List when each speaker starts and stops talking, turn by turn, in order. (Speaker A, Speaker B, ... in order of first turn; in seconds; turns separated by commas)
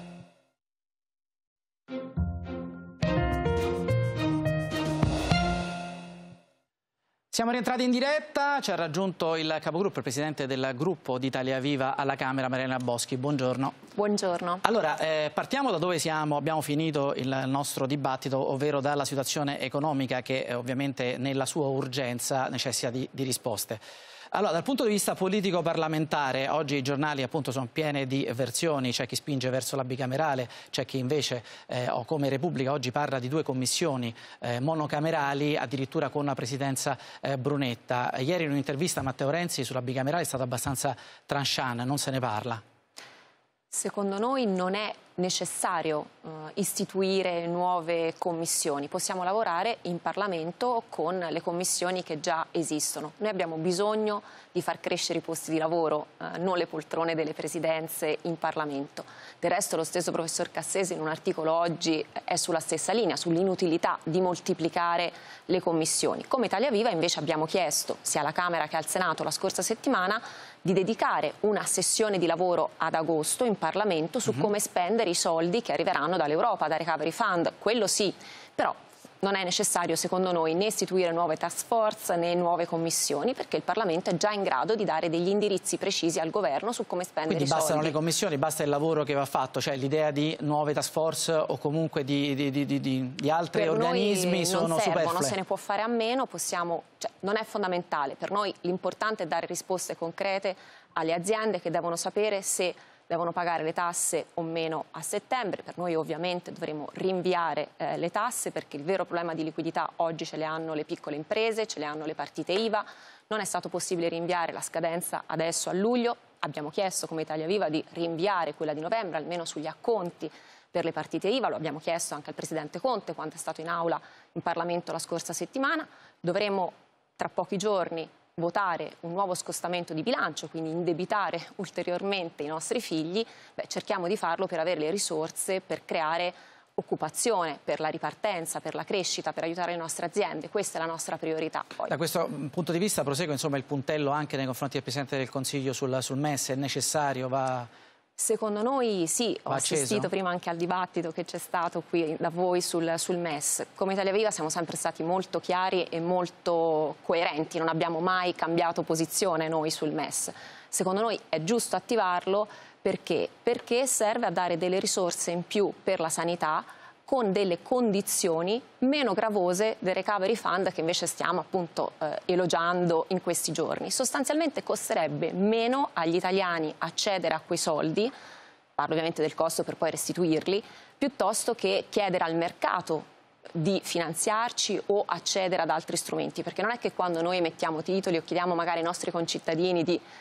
Speaker A: 7.3-13.8, Speaker B: 13.9-14.6, Speaker A: 14.6-23.8, Speaker A: 24.3-42.6, Speaker B: 43.7-88.0, Speaker A: 87.3-95.4, Speaker B: 93.5-141.9, Speaker A: 141.8-147.7, Speaker B: 148.2-178.1, Speaker A: 149.5-150.1, Speaker B: 178.8-190.0